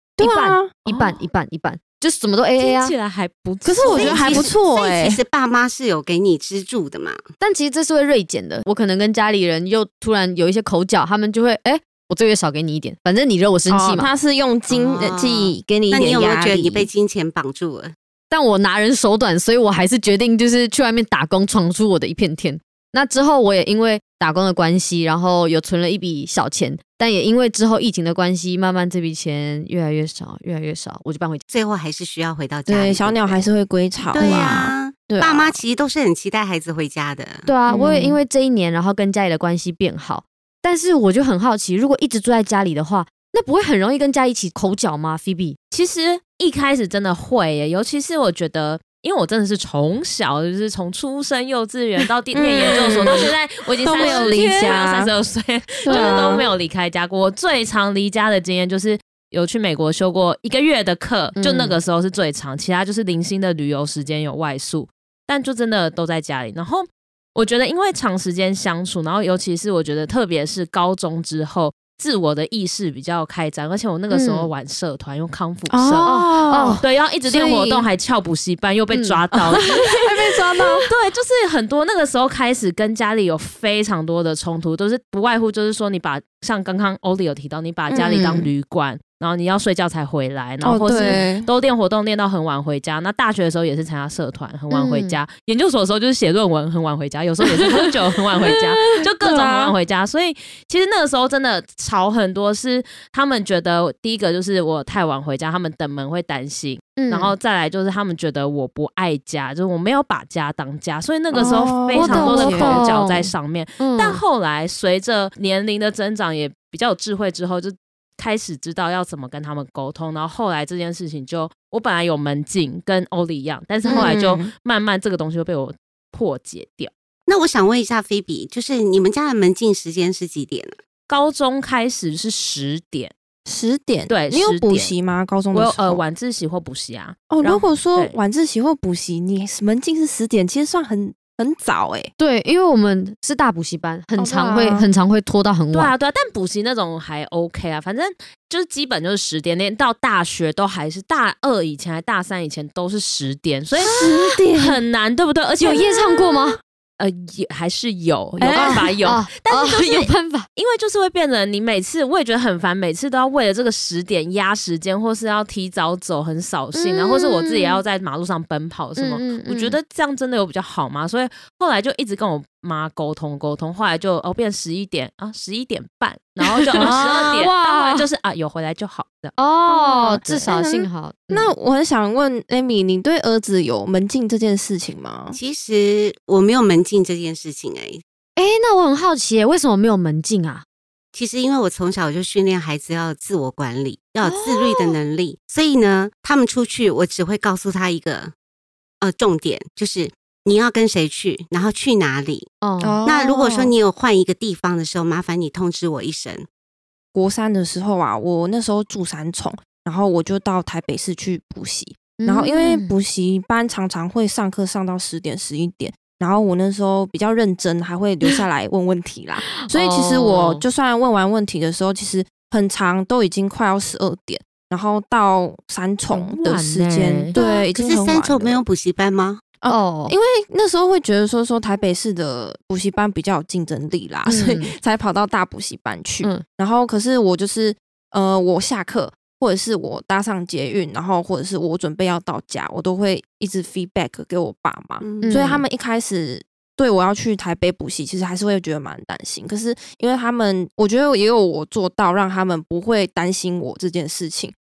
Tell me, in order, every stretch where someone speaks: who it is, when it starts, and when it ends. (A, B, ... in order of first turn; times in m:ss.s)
0:00.2-0:00.7 A
0:00.2-0:02.9 B
0:00.8-0:01.2 C
0:02.6-0:04.5 C
0:03.6-0:05.2 A
0:03.9-0:07.2 D
0:07.4-0:14.1 B
0:13.7-0:16.9 A
0:14.7-0:17.9 D
0:18.3-0:31.4 B
0:31.5-0:33.4 D
0:32.7-0:35.6 A
0:34.1-0:37.5 D
0:34.1-0:34.6 B
0:37.5-0:45.6 B
0:37.7-0:38.2 A
0:45.7-1:16.1 C
0:52.3-0:53.3 A
0:53.8-0:55.1 A
0:54.0-0:54.4 B
0:55.8-0:56.5 A
0:55.9-0:56.3 B
1:01.4-1:01.8 B
1:14.1-1:14.5 B
1:15.7-1:17.9 A
1:16.0-1:16.8 B
1:16.8-1:20.0 C
1:18.9-1:19.2 B
1:19.3-1:20.9 A
1:20.6-2:06.9 C
1:27.9-1:28.5 A
1:30.6-1:31.5 A
1:34.7-1:35.2 B
1:39.2-1:39.8 A
1:47.0-1:47.3 B
1:51.3-1:52.9 A
1:51.3-1:54.2 B
2:03.8-2:04.1 B
2:03.8-2:04.5 A
2:07.3-2:10.8 D
2:11.1-2:13.1 C
2:13.4-2:16.0 A
2:14.1-2:14.9 C
2:15.5-2:18.2 C
2:17.3-2:22.1 A
2:22.2-2:25.9 B
2:24.2-2:24.9 A
2:25.7-2:33.9 C
2:33.8-2:34.8 A
2:33.8-2:34.4 B
2:34.5-2:36.1 C
2:35.6-2:36.6 B
2:37.0-2:59.3 C
2:38.4-2:38.9 A
2:38.5-2:40.5 B
2:46.7-2:47.8 B
2:49.0-2:49.8 B
2:56.8-2:57.4 A
2:56.8-2:58.0 B
2:59.4-3:01.5 B
2:59.7-3:05.4 A
3:00.1-3:00.5 C
3:05.3-3:08.0 D
3:08.4-3:10.6 B
3:11.1-3:18.3 D
3:14.2-3:15.0 B
3:19.0-3:22.5 D
3:22.6-3:23.0 B
3:22.8-3:23.7 A
3:23.0-3:26.5 D
3:27.1-3:48.6 A
3:32.2-3:32.9 B
3:39.6-3:40.6 B
3:46.1-3:47.4 C
3:47.4-3:47.6 B
3:47.4-3:49.4 D
3:49.6-4:14.5 A
3:49.7-3:50.2 B
3:54.2-3:54.7 B
4:05.0-4:05.6 D
4:05.2-4:05.6 B